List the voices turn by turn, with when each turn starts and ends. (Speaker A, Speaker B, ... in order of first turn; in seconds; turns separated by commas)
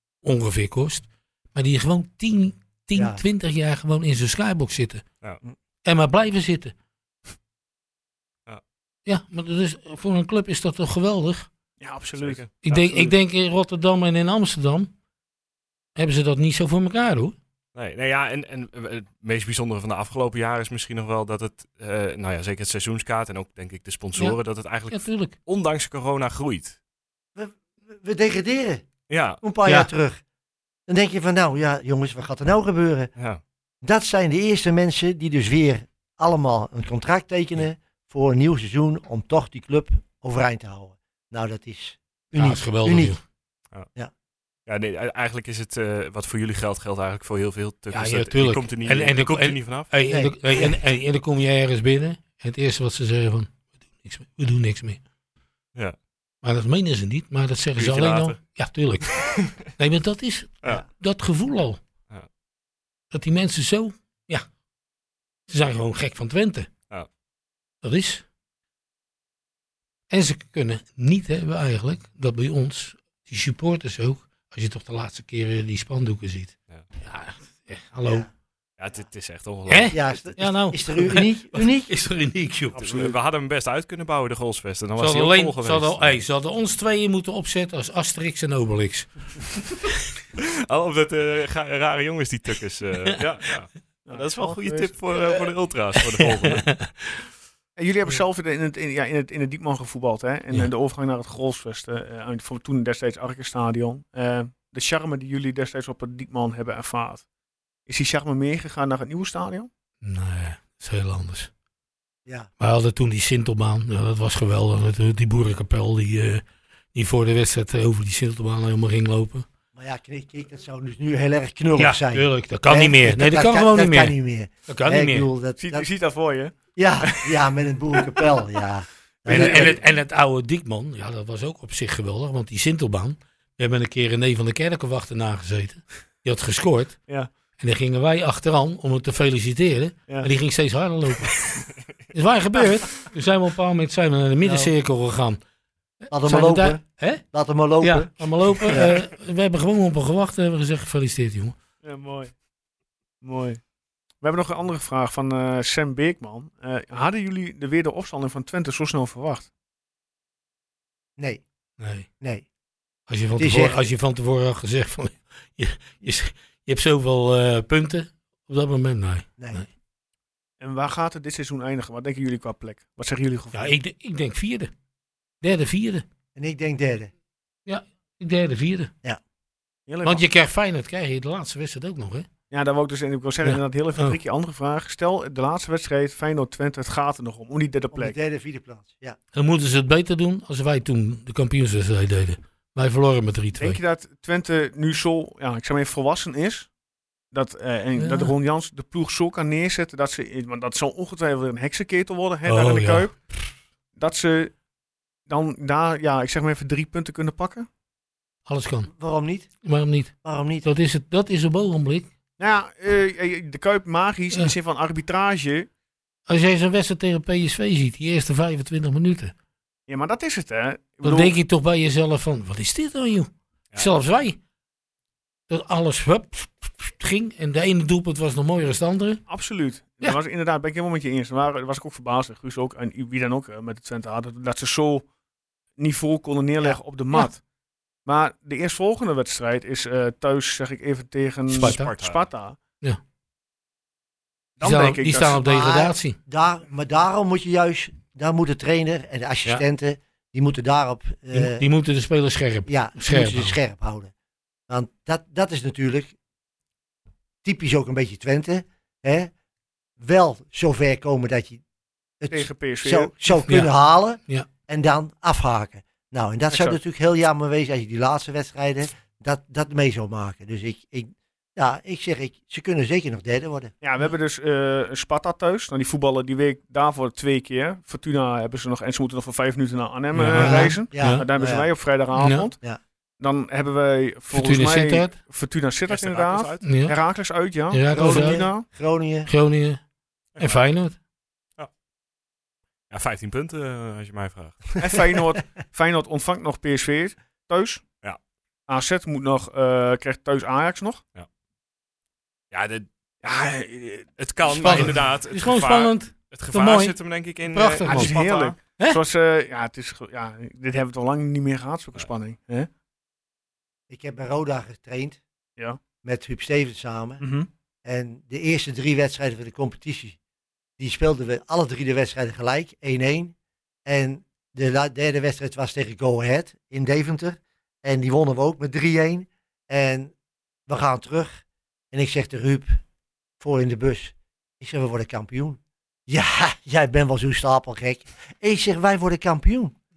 Speaker A: 0.2-5.0, Speaker B: 2.9-3.2, Speaker A: 5.8-6.7, Speaker A: 9.1-11.5, Speaker C: 11.8-13.1, Speaker D: 12.2-12.5, Speaker A: 12.6-14.9, Speaker A: 15.9-17.3, Speaker D: 17.7-26.8, Speaker A: 24.9-25.3, Speaker B: 27.4-28.8, Speaker D: 29.1-29.4, Speaker B: 29.4-30.2, Speaker B: 30.9-33.1, Speaker B: 33.8-43.2, Speaker A: 42.3-43.2, Speaker D: 44.7-49.9, Speaker A: 47.9-55.0, Speaker B: 50.1-50.8, Speaker A: 56.4-61.8, Speaker D: 57.8-58.4, Speaker D: 59.2-59.5, Speaker A: 63.1-64.5, Speaker A: 65.5-66.7, Speaker A: 67.8-68.2, Speaker A: 70.1-78.3, Speaker B: 78.0-78.3, Speaker D: 78.8-80.1, Speaker A: 79.7-83.1, Speaker B: 79.9-81.9, Speaker D: 82.7-86.2, Speaker A: 85.0-89.3, Speaker D: 90.7-96.7, Speaker C: 94.1-94.9, Speaker A: 96.2-97.2, Speaker C: 97.8-107.2, Speaker C: 107.9-109.7, Speaker A: 110.0-111.5, Speaker A: 112.6-116.4, Speaker A: 116.9-119.4, Speaker B: 119.7-125.9, Speaker A: 121.8-124.2, Speaker A: 124.7-125.3, Speaker C: 125.6-126.5, Speaker B: 126.7-129.8, Speaker C: 127.1-127.3, Speaker A: 129.2-137.0, Speaker C: 129.3-129.8, Speaker A: 137.6-145.4, Speaker B: 144.4-144.7, Speaker A: 146.0-147.2, Speaker B: 146.1-149.0, Speaker A: 147.8-151.5, Speaker C: 151.8-152.3, Speaker C: 153.2-153.6, Speaker C: 154.2-159.5, Speaker B: 161.2-161.4, Speaker A: 161.8-162.1, Speaker B: 162.2-162.4, Speaker A: 163.1-169.7, Speaker B: 163.3-163.8, Speaker B: 169.4-169.7, Speaker C: 170.6-173.7, Speaker A: 173.5-174.7, Speaker A: 175.4-176.0, Speaker B: 176.3-177.1, Speaker A: 177.7-178.9, Speaker C: 179.9-180.2, Speaker A: 180.0-182.3, Speaker C: 182.5-188.2, Speaker A: 183.4-184.2, Speaker B: 187.9-189.2, Speaker A: 189.3-193.8, Speaker C: 193.6-196.7, Speaker C: 197.3-203.2, Speaker A: 197.9-198.3, Speaker A: 202.4-203.5, Speaker C: 203.9-204.5, Speaker C: 205.3-207.7, Speaker A: 208.5-208.9, Speaker B: 208.9-209.5, Speaker A: 209.6-212.1, Speaker B: 210.2-210.7, Speaker C: 212.4-215.7, Speaker A: 216.3-219.3, Speaker C: 219.9-221.3, Speaker A: 221.0-224.4, Speaker A: 225.5-229.2, Speaker C: 229.3-235.1, Speaker C: 235.8-237.4, Speaker C: 238.0-242.6, Speaker A: 241.5-241.9, Speaker D: 241.5-242.2, Speaker C: 244.6-245.4, Speaker A: 244.6-246.2, Speaker B: 245.3-251.6, Speaker A: 251.3-253.6, Speaker B: 252.7-254.1, Speaker B: 254.7-256.1, Speaker B: 257.4-259.3, Speaker B: 260.0-261.6, Speaker B: 262.2-273.7, Speaker C: 262.3-263.1, Speaker A: 263.5-263.7, Speaker C: 266.5-266.8, Speaker C: 273.8-282.6, Speaker A: 280.1-281.2, Speaker B: 280.3-281.7, Speaker A: 282.1-282.5, Speaker C: 283.2-288.6, Speaker A: 284.3-285.1, Speaker D: 285.9-286.7, Speaker A: 286.6-286.9, Speaker A: 287.7-288.5, Speaker B: 287.9-289.3, Speaker A: 289.3-289.8, Speaker D: 290.3-290.6, Speaker A: 290.4-290.9, Speaker D: 292.9-294.8, Speaker C: 294.8-297.8, Speaker C: 298.7-301.0, Speaker D: 302.5-302.9, Speaker C: 303.2-305.0, Speaker D: 304.2-308.6, Speaker A: 304.6-307.0, Speaker A: 307.5-308.1, Speaker C: 307.9-312.7, Speaker B: 313.9-315.2, Speaker B: 316.0-317.2, Speaker C: 317.2-317.5, Speaker B: 317.8-320.2, Speaker B: 320.8-323.3, Speaker B: 323.9-330.1, Speaker B: 330.7-332.8, Speaker B: 333.4-339.7